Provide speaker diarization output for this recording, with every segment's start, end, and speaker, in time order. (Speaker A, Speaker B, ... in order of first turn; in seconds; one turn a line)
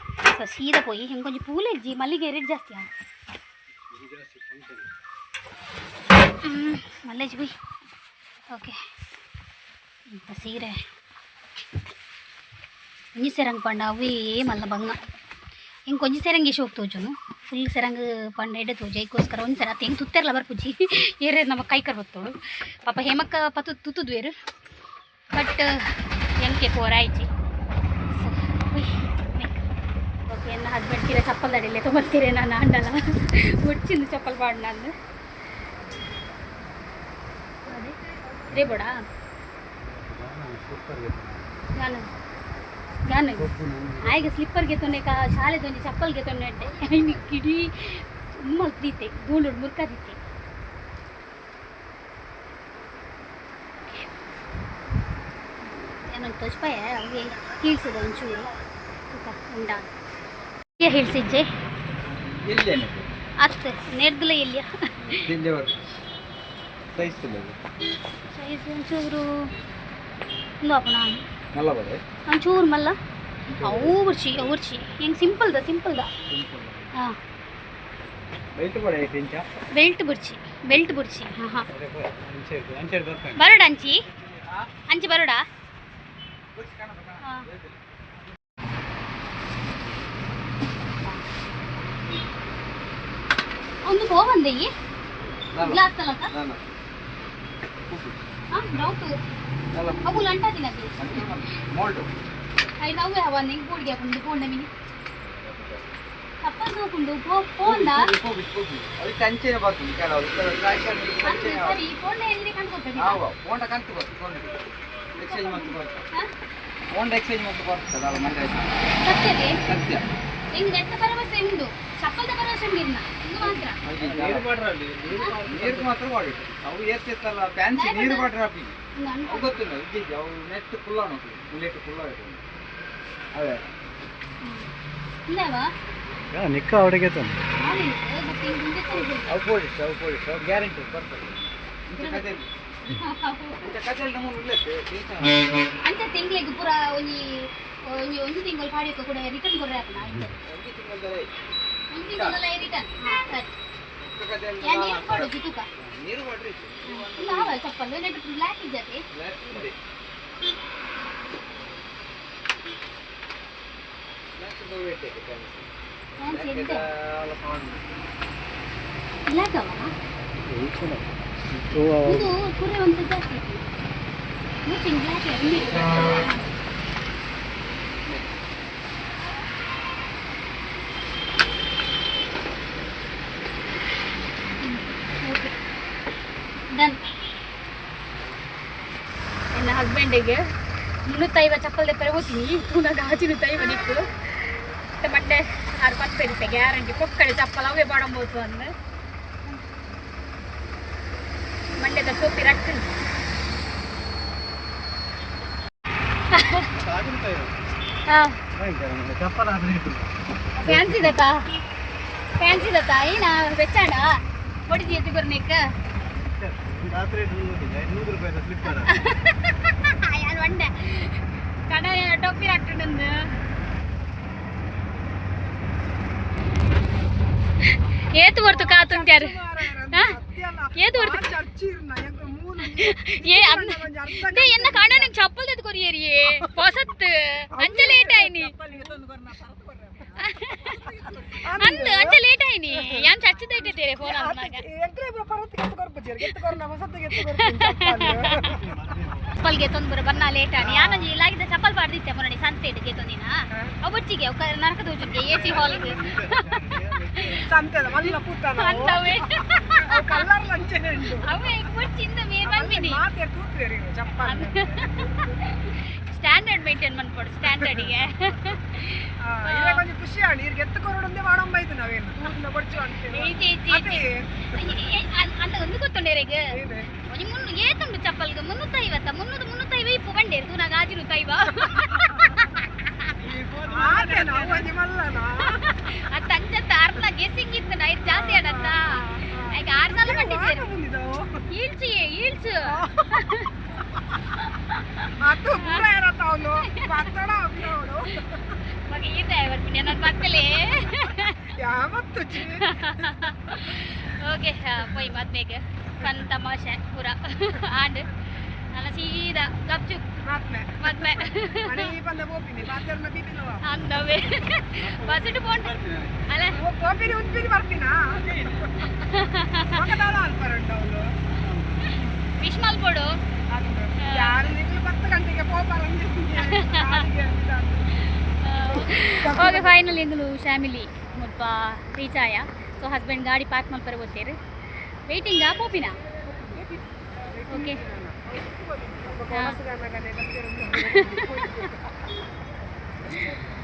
Speaker A: 0.2-2.9
Speaker B: 3.8-4.9
Speaker A: 6.4-7.5
Speaker A: 8.5-8.8
Speaker A: 10.1-10.8
Speaker A: 13.2-15.0
Speaker A: 15.9-22.3
Speaker A: 22.9-24.3
Speaker A: 25.3-27.3
Speaker A: 28.1-29.7
Speaker A: 30.3-34.9
Speaker A: 37.6-38.0
Speaker A: 38.5-38.9
Speaker B: 39.8-41.6
Speaker A: 41.8-42.1
Speaker A: 43.1-43.5
Speaker B: 43.4-44.4
Speaker A: 44.0-50.2
Speaker A: 55.6-58.5
Speaker A: 59.1-59.9
Speaker A: 60.8-61.5
Speaker C: 62.5-63.1
Speaker A: 63.4-65.2
Speaker C: 65.0-65.8
Speaker C: 66.9-67.6
Speaker A: 68.3-69.5
Speaker A: 70.6-71.2
Speaker C: 71.5-72.0
Speaker A: 72.3-73.0
Speaker A: 73.5-76.1
Speaker C: 73.6-74.0
Speaker C: 76.3-76.9
Speaker C: 78.5-79.5
Speaker A: 79.8-81.7
Speaker B: 81.7-83.5
Speaker A: 83.4-84.0
Speaker C: 84.1-84.7
Speaker A: 84.9-85.4
Speaker C: 86.5-87.8
Speaker A: 87.2-87.5
Speaker A: 93.8-94.7
Speaker C: 95.5-95.8
Speaker A: 95.6-96.3
Speaker C: 96.3-96.6
Speaker C: 97.9-98.2
Speaker A: 98.5-99.1
Speaker C: 99.7-100.2
Speaker A: 100.0-101.0
Speaker C: 101.0-102.1
Speaker A: 102.8-104.7
Speaker C: 105.2-105.9
Speaker A: 106.4-108.1
Speaker C: 107.6-111.8
Speaker A: 111.2-113.2
Speaker C: 113.0-114.6
Speaker C: 115.2-116.0
Speaker A: 115.2-116.3
Speaker C: 116.9-118.8
Speaker A: 119.0-119.7
Speaker C: 119.6-120.1
Speaker A: 120.5-123.8
Speaker C: 123.6-128.8
Speaker B: 125.5-125.8
Speaker A: 127.8-128.3
Speaker A: 129.0-129.6
Speaker C: 129.3-132.4
Speaker C: 133.3-133.6
Speaker A: 134.4-134.7
Speaker A: 135.3-135.7
Speaker B: 136.3-137.4
Speaker A: 137.6-139.4
Speaker C: 139.3-142.5
Speaker A: 142.0-142.3
Speaker A: 142.9-143.6
Speaker C: 143.6-145.4
Speaker A: 145.8-147.3
Speaker A: 147.9-150.3
Speaker B: 150.0-150.4
Speaker C: 150.4-151.3
Speaker A: 151.9-153.5
Speaker C: 152.1-152.4
Speaker C: 154.0-157.6
Speaker A: 154.6-155.7
Speaker A: 156.9-159.0
Speaker C: 159.1-159.8
Speaker C: 164.4-167.9
Speaker A: 166.2-166.8
Speaker A: 169.3-169.9
Speaker B: 170.4-172.4
Speaker A: 172.1-173.7
Speaker A: 174.7-176.5
Speaker A: 184.6-185.5
Speaker A: 186.7-187.0
Speaker A: 189.5-190.4
Speaker A: 191.1-198.7
Speaker A: 201.8-202.9
Speaker A: 206.3-206.7
Speaker B: 206.7-207.7
Speaker A: 208.1-208.4
Speaker B: 208.5-211.2
Speaker A: 210.6-211.4
Speaker A: 212.4-215.6
Speaker B: 216.2-219.1
Speaker A: 218.7-223.2
Speaker A: 228.1-229.4
Speaker D: 228.4-235.1
Speaker A: 230.8-231.3
Speaker A: 232.6-238.6
Speaker D: 237.6-239.1
Speaker A: 240.2-240.9
Speaker D: 241.3-242.2
Speaker A: 241.6-244.6
Speaker D: 242.7-243.1
Speaker D: 243.8-248.8
Speaker A: 247.3-248.6
Speaker B: 248.5-249.3
Speaker A: 249.4-253.3
Speaker D: 250.6-251.1
Speaker A: 253.8-257.4
Speaker B: 255.2-257.5
Speaker D: 257.4-261.3
Speaker A: 258.0-260.2
Speaker A: 261.2-263.0
Speaker D: 262.4-265.1
Speaker A: 264.2-269.8
Speaker D: 267.5-267.9
Speaker D: 269.2-274.9
Speaker A: 273.1-276.4
Speaker D: 276.5-276.9
Speaker A: 277.1-283.1
Speaker D: 283.6-285.6
Speaker A: 285.5-290.6
Speaker D: 288.1-291.4
Speaker A: 291.5-293.5
Speaker D: 292.7-293.1
Speaker A: 294.3-295.8
Speaker D: 295.2-298.5
Speaker A: 296.6-297.1
Speaker A: 298.1-301.5
Speaker D: 301.5-303.3
Speaker A: 302.4-310.1
Speaker D: 310.2-313.6
Speaker A: 310.8-311.9
Speaker A: 313.6-315.8
Speaker B: 314.8-316.3
Speaker A: 316.3-316.6
Speaker D: 316.5-318.9
Speaker A: 318.8-319.8
Speaker D: 319.6-321.1
Speaker A: 321.4-323.1
Speaker D: 323.5-328.0
Speaker A: 324.0-324.5
Speaker A: 326.4-327.1
Speaker A: 327.9-334.4
Speaker D: 328.6-329.8
Speaker A: 335.1-335.9
Speaker D: 337.3-342.1
Speaker A: 337.5-337.8
Speaker A: 339.3-339.6
Speaker A: 340.8-341.7
Speaker D: 343.0-343.4